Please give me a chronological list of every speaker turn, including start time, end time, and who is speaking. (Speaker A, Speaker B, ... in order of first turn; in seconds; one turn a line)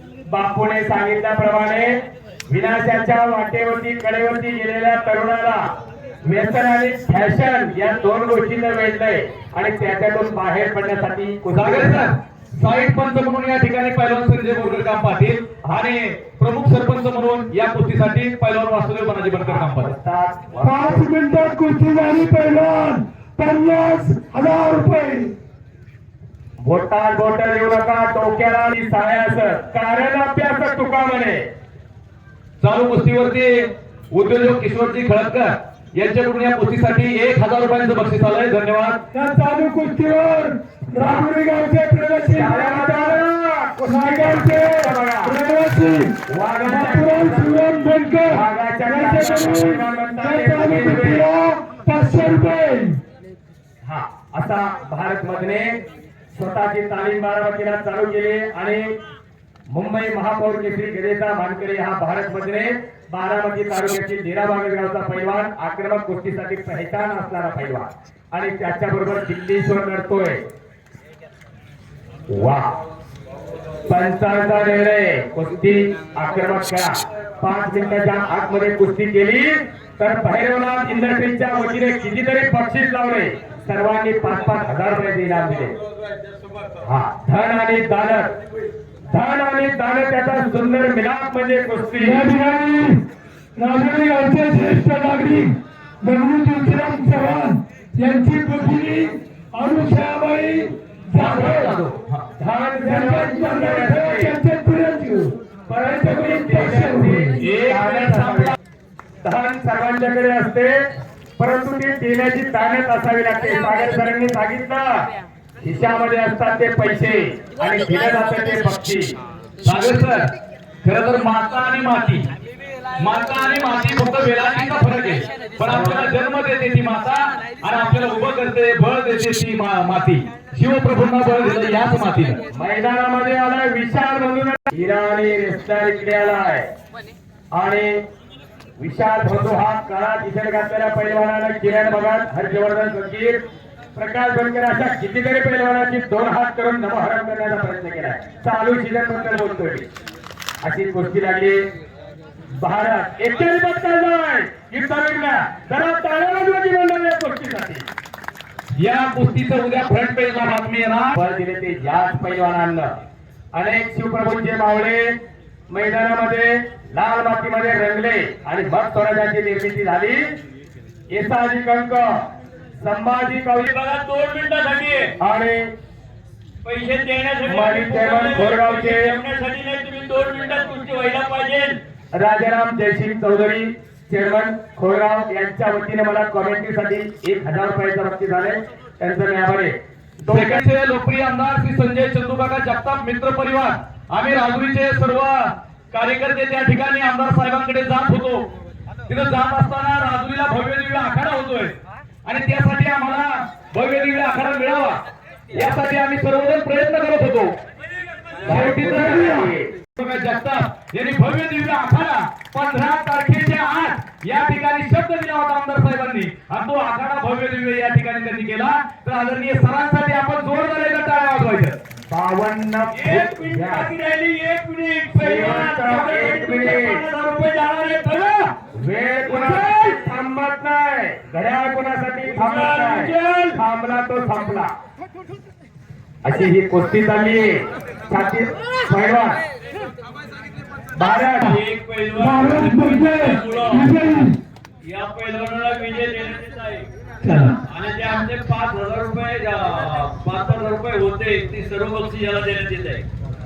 Speaker A: 0.3-5.7
Speaker A: 6.2-12.1
Speaker B: 11.5-19.9
Speaker A: 19.4-21.1
Speaker C: 20.6-25.3
Speaker A: 26.6-31.5
Speaker B: 32.6-39.0
Speaker C: 39.1-43.2
Speaker A: 41.0-41.3
Speaker A: 42.3-45.4
Speaker C: 43.9-53.0
Speaker A: 46.3-47.7
Speaker A: 48.3-51.2
Speaker A: 53.8-55.8
Speaker A: 56.3-58.9
Speaker A: 59.7-70.4
Speaker A: 72.3-72.7
Speaker A: 73.9-85.8
Speaker A: 86.8-88.4
Speaker A: 89.1-92.2
Speaker C: 92.0-93.0
Speaker C: 93.6-101.8
Speaker B: 101.2-102.3
Speaker A: 102.4-104.4
Speaker C: 102.8-107.4
Speaker A: 105.7-108.6
Speaker B: 107.4-108.6
Speaker A: 109.2-110.9
Speaker A: 111.4-115.1
Speaker A: 115.6-119.1
Speaker B: 119.6-120.3
Speaker B: 120.8-122.3
Speaker B: 123.0-132.4
Speaker A: 125.6-126.1
Speaker A: 132.5-136.7
Speaker A: 137.5-138.0
Speaker A: 138.8-143.4
Speaker A: 144.0-149.9
Speaker A: 150.6-151.6
Speaker A: 152.6-157.9
Speaker B: 158.8-161.2
Speaker A: 161.1-162.9
Speaker A: 163.5-165.1
Speaker A: 165.7-170.2
Speaker A: 171.1-172.1
Speaker A: 172.8-173.7
Speaker D: 173.6-175.1
Speaker A: 175.2-175.7
Speaker D: 176.6-181.8
Speaker A: 177.5-179.1
Speaker A: 182.2-190.6
Speaker B: 190.3-198.4
Speaker B: 199.1-205.0
Speaker B: 205.5-207.6
Speaker A: 208.4-209.7
Speaker C: 208.5-209.5
Speaker B: 208.5-209.3
Speaker B: 210.0-221.8
Speaker A: 222.1-223.9
Speaker D: 222.9-228.5
Speaker A: 225.2-227.0
Speaker A: 228.7-234.7
Speaker D: 229.3-230.0
Speaker D: 232.3-233.6
Speaker A: 236.2-239.4
Speaker A: 240.9-241.6
Speaker D: 241.4-243.9
Speaker C: 242.2-244.4
Speaker D: 244.8-246.9
Speaker C: 247.2-247.6
Speaker D: 247.7-253.1